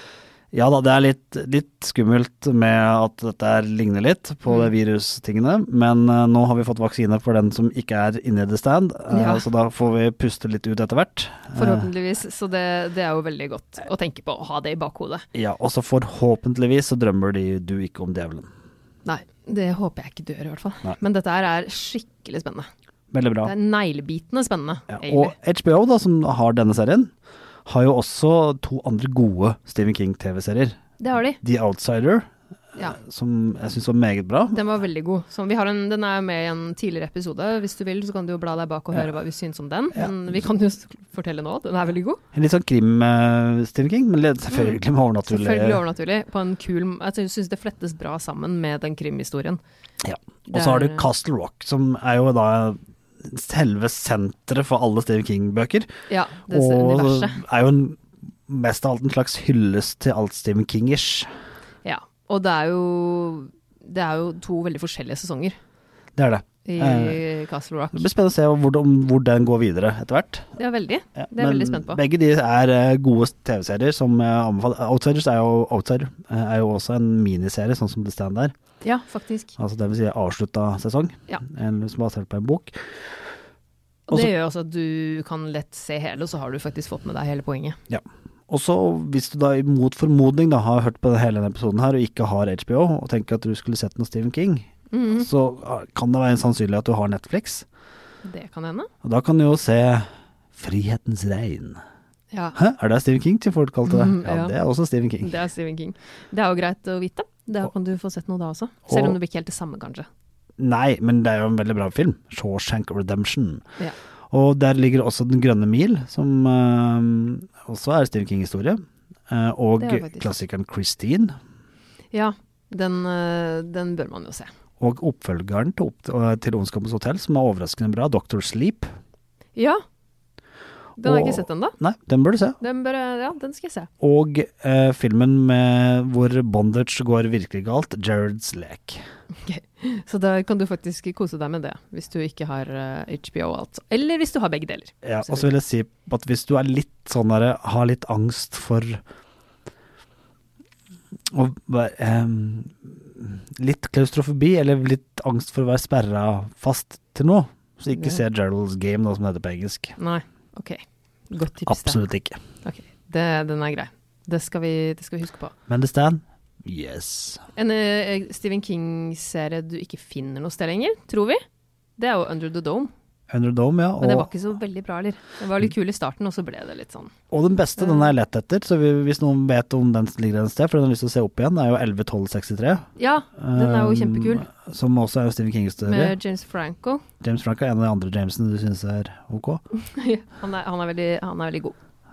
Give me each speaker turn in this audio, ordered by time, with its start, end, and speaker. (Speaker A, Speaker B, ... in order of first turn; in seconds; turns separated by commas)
Speaker A: 0.5-11.9, Speaker B: 9.1-9.4, Speaker B: 11.5-15.2, Speaker A: 15.3-18.5, Speaker B: 19.0-22.7, Speaker A: 23.1-23.5, Speaker B: 23.4-25.3, Speaker A: 24.9-27.1, Speaker A: 27.6-30.8, Speaker B: 31.0-31.4, Speaker A: 31.4-34.6, Speaker B: 34.5-42.2, Speaker A: 42.3-45.8, Speaker B: 44.5-49.6, Speaker A: 50.0-55.9, Speaker B: 50.5-51.0, Speaker B: 56.1-57.4, Speaker A: 56.5-61.3, Speaker B: 61.8-65.5, Speaker A: 66.2-67.2, Speaker B: 66.6-68.1, Speaker A: 67.9-70.4, Speaker B: 70.6-72.0, Speaker A: 71.2-78.5, Speaker B: 78.8-79.5, Speaker A: 79.6-82.7, Speaker B: 84.1-87.8, Speaker A: 87.9-97.7, Speaker B: 94.9-95.3, Speaker B: 98.2-98.9, Speaker A: 99.0-101.8, Speaker A: 102.5-105.3, Speaker B: 103.8-104.5, Speaker B: 105.2-110.1, Speaker A: 108.9-109.2, Speaker A: 110.6-113.6, Speaker A: 114.3-121.3, Speaker B: 119.8-120.3, Speaker B: 122.1-124.5, Speaker A: 124.8-128.9, Speaker B: 129.5-129.8, Speaker B: 131.0-131.7, Speaker A: 131.0-132.6, Speaker B: 132.6-133.9, Speaker A: 134.0-139.0, Speaker B: 139.3-145.5, Speaker A: 145.0-149.0, Speaker A: 151.3-159.9, Speaker B: 160.0-162.0, Speaker A: 161.7-162.4, Speaker B: 162.6-165.5, Speaker A: 165.7-167.4, Speaker B: 167.6-171.4, Speaker B: 172.0-172.9, Speaker A: 173.3-174.3, Speaker B: 174.0-177.1, Speaker A: 177.3-182.8, Speaker B: 177.8-178.1, Speaker B: 183.0-184.5, Speaker A: 183.4-186.2, Speaker B: 185.8-187.0, Speaker A: 187.2-189.6, Speaker B: 189.8-191.8